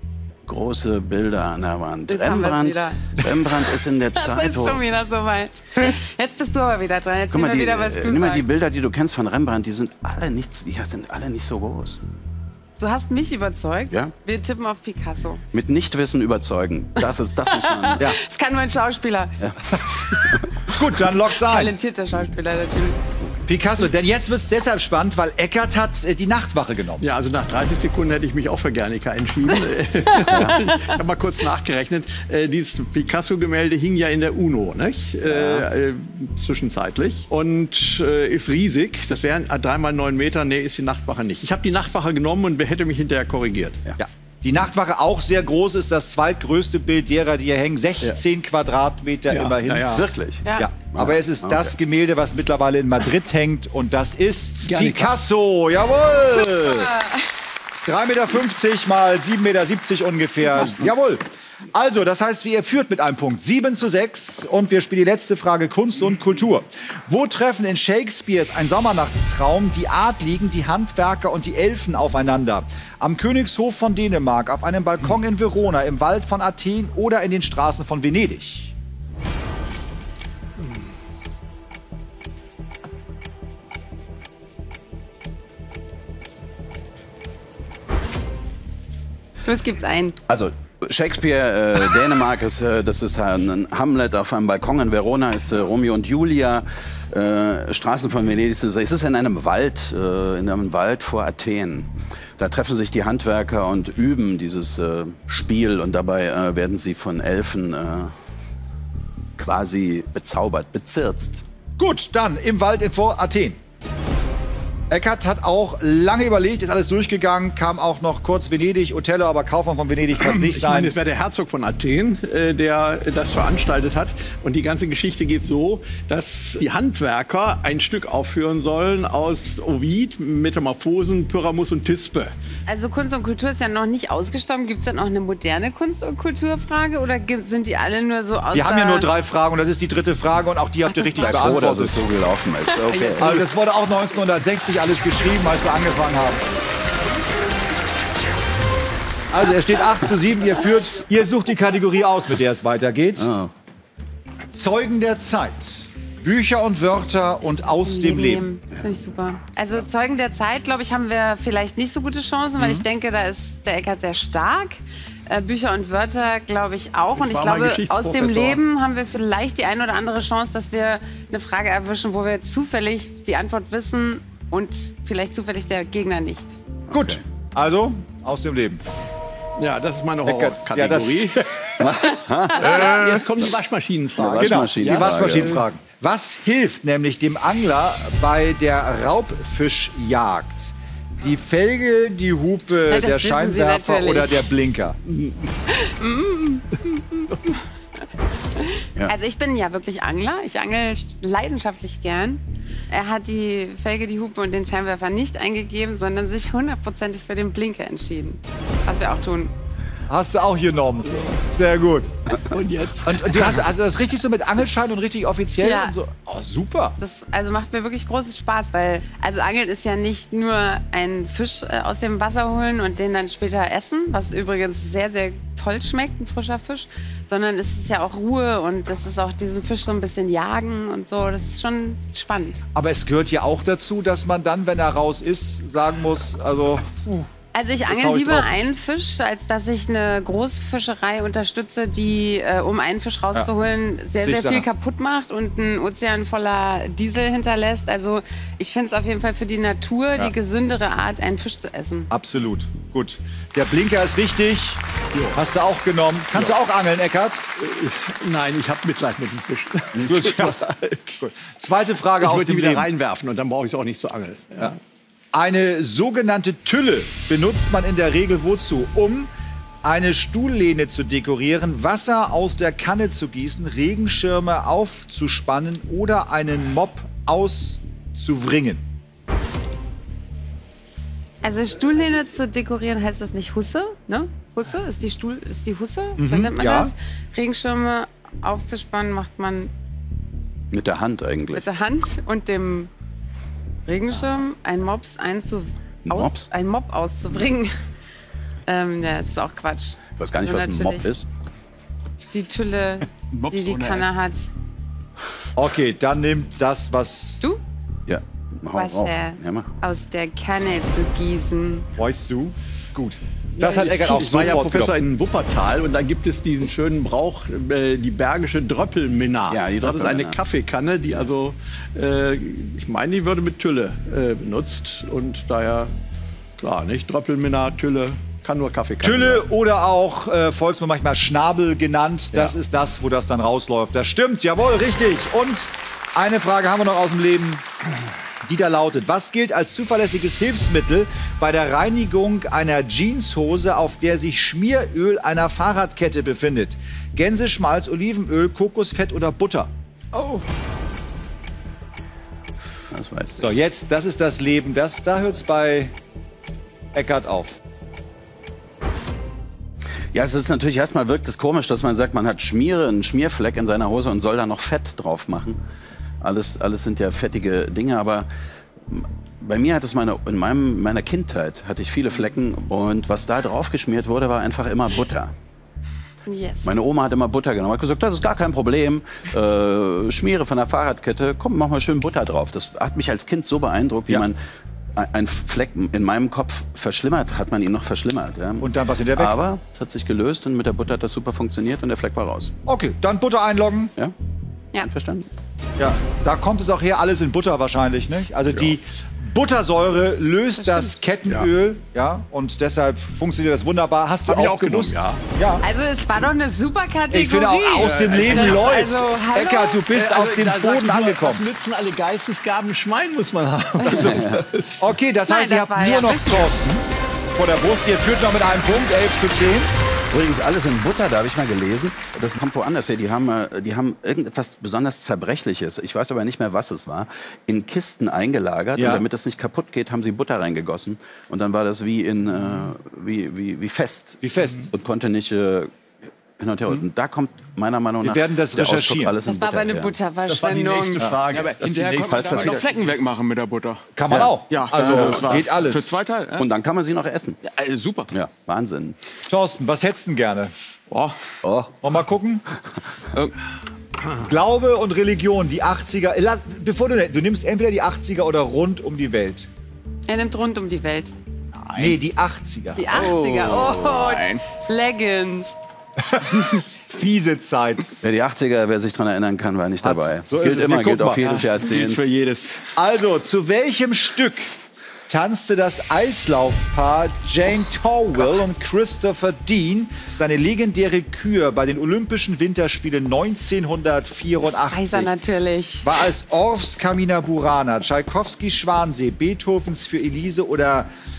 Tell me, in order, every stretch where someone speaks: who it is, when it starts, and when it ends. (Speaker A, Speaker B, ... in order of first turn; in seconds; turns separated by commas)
Speaker A: 0.5-4.8, Speaker B: 2.1-3.1, Speaker B: 4.2-8.4, Speaker A: 7.3-12.0, Speaker B: 12.8-15.4, Speaker A: 15.5-18.1, Speaker B: 17.5-20.2, Speaker A: 19.4-20.8, Speaker C: 20.7-21.7, Speaker B: 21.3-23.0, Speaker C: 23.5-27.0, Speaker D: 27.0-43.8, Speaker A: 30.3-30.6, Speaker C: 44.0-56.9, Speaker D: 49.3-50.0, Speaker A: 49.9-51.7, Speaker B: 50.5-50.7, Speaker D: 54.6-55.1, Speaker B: 56.6-57.3, Speaker C: 57.8-78.7, Speaker B: 89.5-90.2, Speaker A: 90.3-108.2, Speaker A: 109.4-111.5, Speaker C: 111.8-113.6, Speaker C: 114.9-121.0, Speaker D: 120.2-132.3, Speaker B: 132.7-139.1, Speaker C: 138.5-142.0, Speaker B: 140.9-141.5, Speaker A: 141.1-143.4, Speaker B: 142.8-143.3, Speaker C: 143.2-146.4, Speaker C: 149.3-153.3, Speaker A: 153.2-153.5, Speaker C: 154.5-158.5, Speaker B: 157.8-176.6, Speaker D: 167.2-168.6, Speaker A: 176.9-177.2, Speaker C: 176.9-178.8, Speaker D: 179.6-185.6, Speaker C: 180.2-181.6, Speaker A: 181.8-183.6, Speaker A: 184.2-185.6, Speaker C: 184.3-195.0, Speaker B: 192.9-194.5, Speaker B: 195.7-197.4, Speaker B: 198.6-209.5, Speaker C: 210.1-212.2, Speaker D: 212.4-213.7, Speaker C: 213.0-217.0, Speaker B: 215.6-215.9, Speaker B: 217.0-232.6, Speaker C: 232.8-237.3, Speaker B: 237.5-252.1, Speaker C: 237.9-238.5, Speaker C: 244.2-244.7, Speaker C: 252.1-254.8, Speaker C: 255.3-257.4, Speaker D: 257.6-261.2, Speaker C: 260.0-260.7, Speaker C: 261.2-262.9, Speaker D: 262.2-264.8, Speaker C: 265.3-269.3, Speaker C: 269.8-278.8, Speaker B: 281.4-289.7, Speaker C: 286.2-286.9, Speaker A: 290.7-291.7, Speaker B: 291.5-292.9, Speaker B: 293.9-297.8, Speaker A: 296.1-296.5, Speaker B: 298.7-301.1, Speaker A: 300.2-301.3, Speaker B: 302.3-304.5, Speaker E: 303.3-304.1, Speaker C: 305.6-307.4, Speaker A: 308.1-309.7, Speaker B: 308.8-311.9, Speaker C: 312.0-315.0, Speaker D: 313.6-325.9, Speaker A: 319.5-320.4, Speaker D: 326.6-329.4, Speaker C: 329.0-337.6, Speaker C: 338.4-349.7, Speaker B: 350.1-350.5, Speaker A: 352.9-353.5, Speaker C: 353.4-355.9, Speaker C: 356.9-357.6, Speaker A: 360.1-365.6, Speaker A: 366.2-368.3, Speaker A: 368.9-375.3, Speaker B: 376.3-376.7, Speaker A: 376.6-384.4, Speaker A: 384.9-392.5, Speaker C: 388.6-389.4, Speaker C: 392.7-393.9, Speaker A: 394.8-395.3, Speaker C: 395.8-405.6, Speaker B: 400.6-400.9, Speaker D: 404.3-405.2, Speaker B: 405.6-409.8, Speaker C: 407.1-411.5, Speaker D: 407.8-408.7, Speaker D: 409.9-414.9, Speaker A: 414.0-414.4, Speaker C: 414.8-419.7, Speaker B: 415.3-416.5, Speaker A: 420.1-435.7, Speaker C: 428.8-429.1, Speaker C: 434.2-434.7, Speaker A: 436.4-439.9, Speaker C: 438.0-439.1, Speaker B: 439.3-440.9, Speaker D: 440.3-442.6, Speaker E: 440.6-446.5, Speaker A: 442.1-442.6, Speaker C: 444.0-445.9, Speaker A: 444.1-445.3, Speaker A: 446.4-447.4, Speaker E: 447.4-448.1, Speaker A: 448.1-449.0, Speaker C: 449.3-450.5, Speaker E: 450.9-451.2, Speaker A: 451.4-451.7, Speaker C: 451.8-452.4, Speaker C: 454.2-459.5, Speaker B: 460.1-461.1, Speaker C: 461.7-462.9, Speaker B: 462.8-465.6, Speaker A: 462.9-464.1, Speaker E: 463.9-464.5, Speaker C: 466.0-467.9, Speaker A: 468.0-472.1, Speaker C: 469.8-471.3, Speaker E: 471.2-472.8, Speaker C: 472.8-474.5, Speaker C: 475.1-485.1, Speaker B: 484.4-485.9, Speaker C: 485.8-490.9